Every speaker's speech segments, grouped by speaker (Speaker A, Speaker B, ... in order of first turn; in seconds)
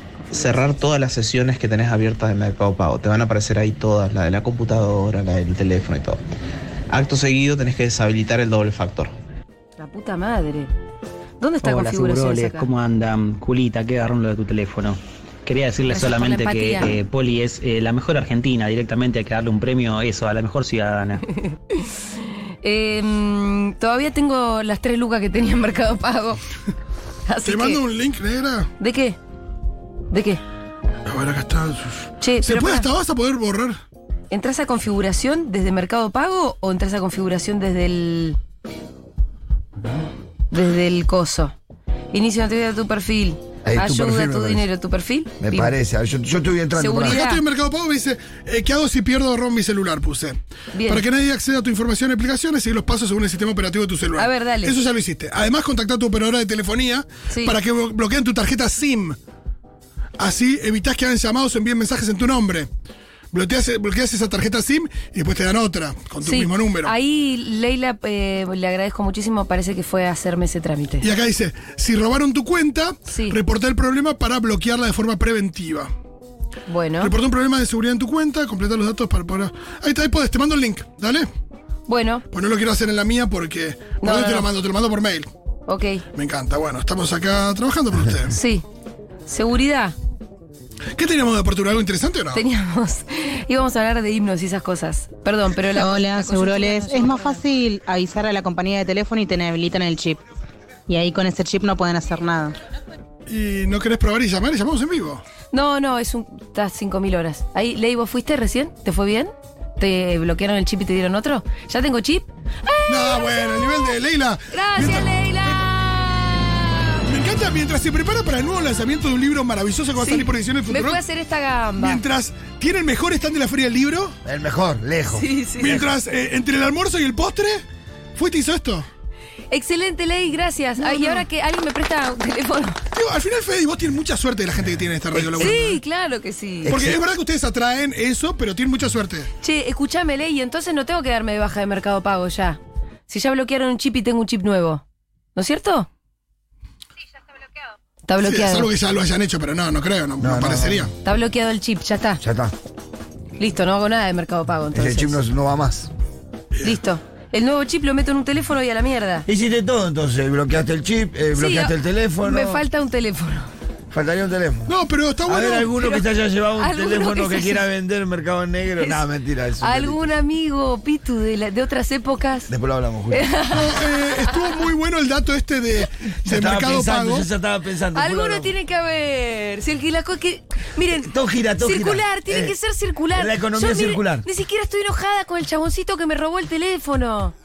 Speaker A: 0.2-0.7, 9.8-10.7, 11.4-12.7, 15.9-16.9, 21.5-21.9, 22.6-26.4, 27.3-27.8, 28.8-29.2, 30.1-30.4, 32.2-32.9, 34.3-38.4, 40.5-41.5, 42.1-45.7, 46.8-47.4, 50.7-51.0, 54.2-54.7, 57.3-57.5, 66.2-71.0, 73.1-73.4, 76.7-77.1, 81.9-82.2, 84.0-84.5, 85.7-86.0, 88.3-88.6, 89.3-90.0, 92.3-97.4, 105.5-114.0, 114.5-117.0, 120.0-122.0, 125.1-125.9, 129.5-132.8, 135.4-136.7, 139.4-144.8, 145.3-145.9, 148.1-148.7, 151.0-152.2, 153.4-155.2, 156.6-159.2, 161.3-163.5, 165.8-166.1, 166.6-167.6, 169.6-172.5, 173.1-174.6, 177.9-187.3
Speaker B: 0.3-6.2, 6.9-9.1
Speaker C: 11.6-21.2
Speaker D: 27.4-28.7, 31.1-33.8, 47.0-59.2, 60.2-62.7, 63.3-66.9, 71.0-75.9, 77.0-81.3, 82.3-85.3, 86.1-88.3, 91.0-92.4, 103.3-105.2, 112.9-115.6, 117.0-121.0, 121.8-124.1, 125.6-127.6, 128.2-128.8, 130.8-131.2, 132.9-135.8, 136.7-139.3, 148.2-150.9, 164.7-165.8, 173.5-177.3
Speaker E: 43.6-44.6, 45.4-47.2, 124.2-125.9, 135.1-135.5, 136.6-137.0, 150.2-150.9, 152.2-152.5, 154.7-155.9, 159.3-162.6, 163.9-170.1, 172.5-173.3, 176.2-178.5, 180.9-182.6, 183.1-184.2
Speaker F: 95.7-100.2, 100.9-102.5